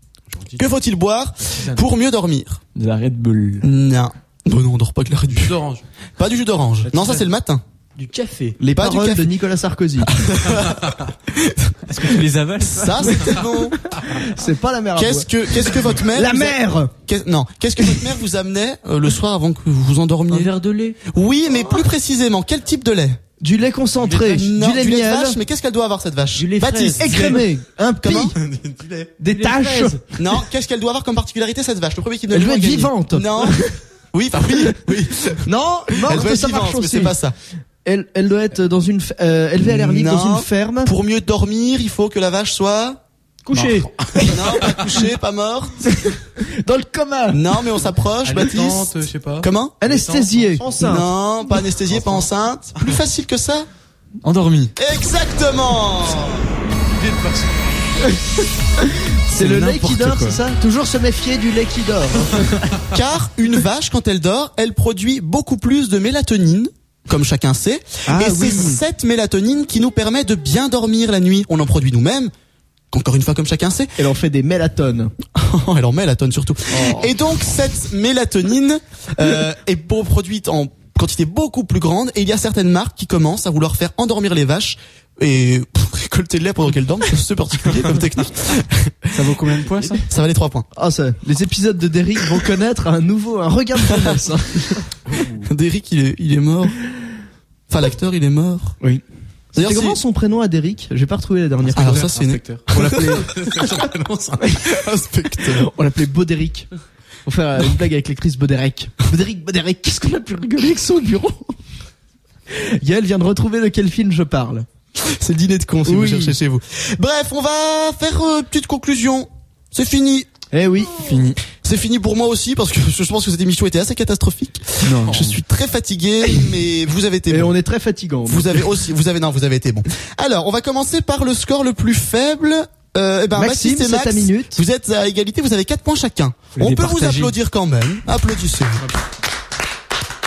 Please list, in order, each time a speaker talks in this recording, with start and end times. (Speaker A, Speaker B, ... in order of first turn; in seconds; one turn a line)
Speaker A: 0.3-0.7
Speaker B: 0.6-2.6
Speaker A: 1.4-1.9
Speaker C: 2.8-3.7
Speaker B: 3.6-5.6
Speaker A: 5.3-5.8
Speaker B: 6.2-7.6
Speaker A: 6.9-7.2
Speaker D: 8.0-8.6
Speaker E: 8.6-10.1
Speaker B: 8.6-9.3
Speaker B: 10.0-12.1
Speaker A: 10.6-10.9
Speaker C: 11.9-13.4
Speaker B: 12.6-13.8
Speaker E: 13.9-16.9
Speaker B: 15.0-23.2
Speaker D: 20.3-21.0
Speaker E: 23.4-25.4
Speaker A: 23.9-24.4
Speaker B: 24.3-27.4
Speaker D: 26.4-27.5
Speaker E: 27.0-28.4
Speaker B: 28.0-28.4
Speaker A: 28.3-29.2
Speaker E: 29.2-30.0
Speaker D: 29.4-30.0
Speaker B: 30.1-37.4
Speaker E: 32.3-33.7
Speaker E: 35.4-37.2
Speaker E: 37.9-40.9
Speaker B: 39.6-43.0
Speaker D: 43.5-43.8
Speaker A: 43.6-44.9
Speaker B: 44.2-46.0
Speaker E: 46.4-47.5
Speaker B: 47.3-49.8
Speaker A: 48.2-50.9
Speaker E: 49.8-51.1
Speaker B: 50.8-53.7
Speaker A: 51.9-53.0
Speaker C: 54.2-54.7
Speaker B: 54.8-56.5
Speaker A: 56.9-58.2
Speaker E: 58.8-62.6
Speaker A: 59.3-60.4
Speaker B: 62.9-72.3
Speaker E: 68.1-68.8
Speaker B: 72.9-74.0
Speaker E: 74.0-75.1
Speaker B: 75.3-89.3
Speaker E: 76.7-77.1
Speaker C: 89.1-90.1
Speaker B: 90.1-90.7
Speaker E: 90.8-94.8
Speaker A: 95.0-95.5
Speaker B: 95.4-96.8
Speaker B: 97.7-98.8
Speaker E: 99.5-103.6
Speaker B: 99.5-100.0
Speaker A: 101.7-104.6
Speaker B: 101.8-103.1
Speaker B: 104.6-105.7
Speaker E: 105.4-106.7
Speaker E: 107.3-111.5
Speaker E: 112.5-114.7
Speaker B: 115.0-120.3
Speaker E: 115.8-116.4
Speaker E: 120.5-121.0
Speaker C: 121.0-121.4
Speaker B: 121.5-127.6
Speaker C: 124.8-125.3
Speaker E: 127.3-128.8
Speaker B: 128.3-138.9
Speaker E: 133.3-134.6
Speaker C: 136.6-137.3